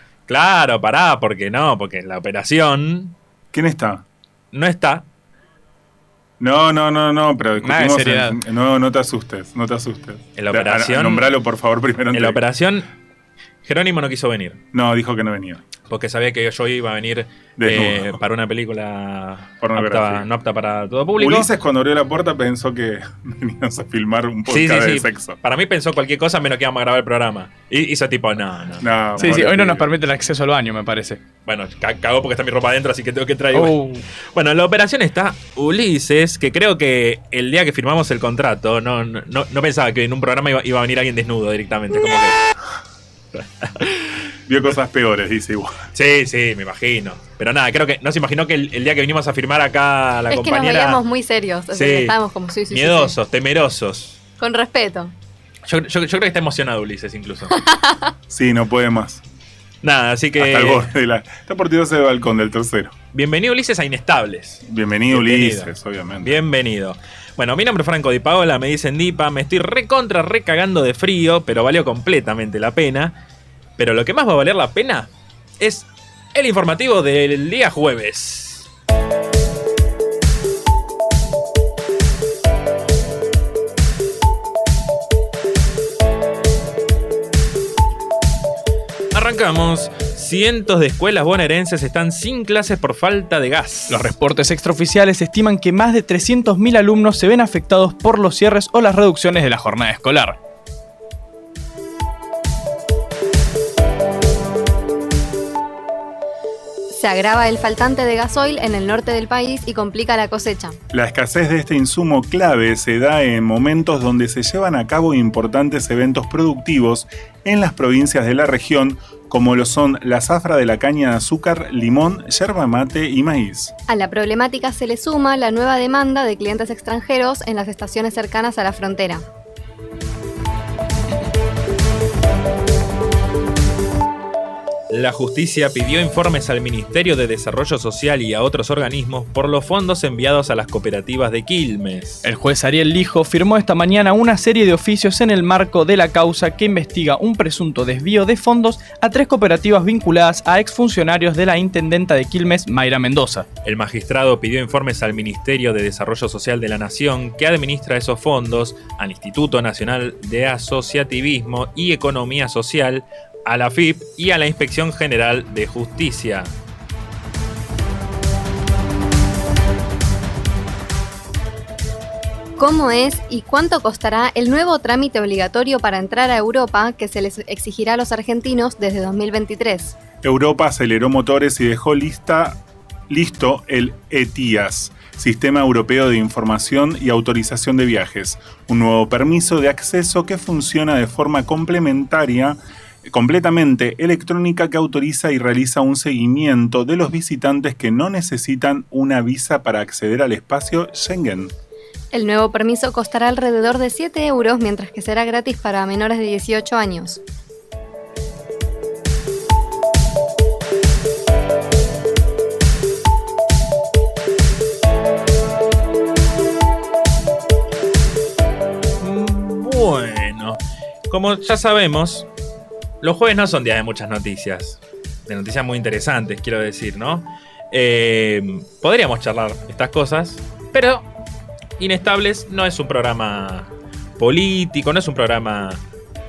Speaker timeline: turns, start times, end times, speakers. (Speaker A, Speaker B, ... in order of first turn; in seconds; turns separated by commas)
Speaker A: 0.3-3.1, Speaker B: 3.5-4.0, Speaker A: 4.5-5.0, Speaker B: 6.4-12.4, Speaker C: 7.6-8.4, Speaker A: 10.4-11.4, Speaker A: 12.1-12.9, Speaker A: 13.6-14.6, Speaker B: 14.7-15.6, Speaker A: 15.9-21.5, Speaker B: 17.6-18.2, Speaker B: 19.6-20.3, Speaker B: 21.2-25.4, Speaker A: 24.5-29.4, Speaker B: 28.8-29.9, Speaker C: 29.2-31.2, Speaker A: 31.5-33.8, Speaker C: 33.5-34.0, Speaker A: 34.3-42.4, Speaker A: 43.4-44.2, Speaker B: 44.5-45.8, Speaker A: 45.9-51.0, Speaker D: 50.3-53.2, Speaker A: 51.7-52.1, Speaker A: 52.7-54.2, Speaker D: 54.4-55.1, Speaker A: 55.6-57.6, Speaker D: 57.5-58.1, Speaker B: 58.3-59.2, Speaker A: 59.8-60.9, Speaker B: 60.4-62.9, Speaker A: 63.1-64.6, Speaker B: 64.7-66.4, Speaker A: 65.2-65.6, Speaker A: 66.2-73.2, Speaker A: 73.8-78.7, Speaker A: 89.1-94.2, Speaker C: 93.9-100.4, Speaker D: 106.9-110.8, Speaker B: 110.9-123.7, Speaker D: 123.9-129.3, Speaker A: 134.9-142.3, Speaker C: 142.2-153.5, Speaker A: 153.7-166.5, Speaker D: 172.6-179.9, Speaker B: 180.2-201.5, Speaker D: 202.1-207.2, Speaker A: 219.0-222.3, Speaker A: 223.0-231.1, Speaker A: 231.8-235.8